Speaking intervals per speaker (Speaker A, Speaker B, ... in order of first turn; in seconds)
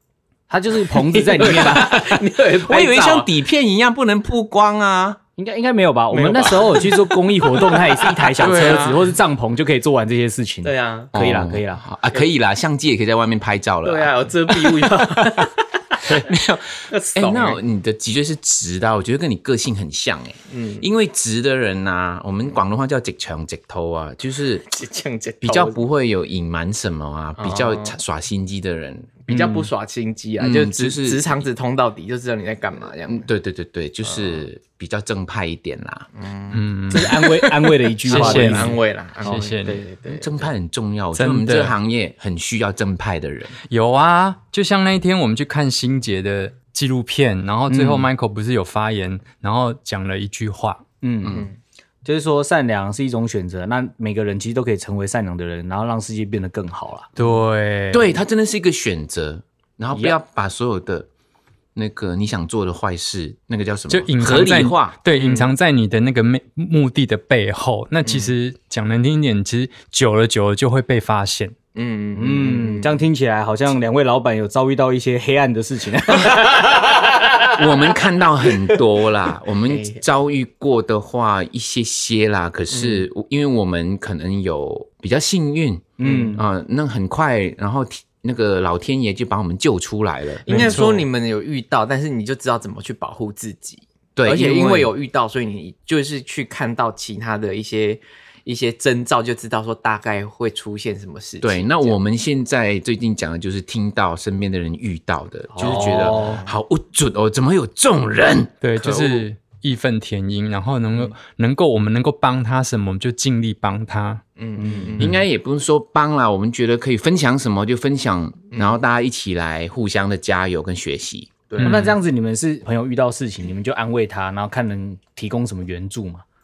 Speaker A: 0.5-2.0, 5.4-11.8, 29.3-29.7, 36.9-38.8, 47.7-48.1, 51.0-51.5, 52.0-57.1, 72.2-77.5, 86.0-86.4, 105.5-106.4, 114.6-115.0, 121.6-126.2
Speaker B: 1.0-3.3, 6.1-9.1, 10.6-11.1, 13.8-16.2, 16.9-17.6, 20.5-20.9, 24.7-25.8, 27.4-28.0, 29.3-33.3, 34.0-34.5, 36.2-36.6, 38.0-40.5, 65.2-65.5, 68.0-68.3, 71.8-73.0, 79.7-80.0, 82.7-83.0, 86.0-86.4, 90.5-102.0, 105.6-106.5, 108.8-109.3, 114.4-115.1, 118.5-118.8, 121.5-121.9
Speaker C: 2.6-5.2, 11.1-14.2, 16.0-24.6, 25.4-29.2, 30.4-31.3, 33.1-36.1, 40.1-43.6, 51.2-51.5, 57.9-61.1, 61.8-65.0, 77.5-90.7, 94.2-94.9, 101.4-108.5, 115.0-121.5
Speaker D: 36.5-39.8, 41.1-41.8, 43.7-50.8, 57.2-58.1, 63.9-71.5, 90.5-91.1, 108.6-114.2, 121.6-122.0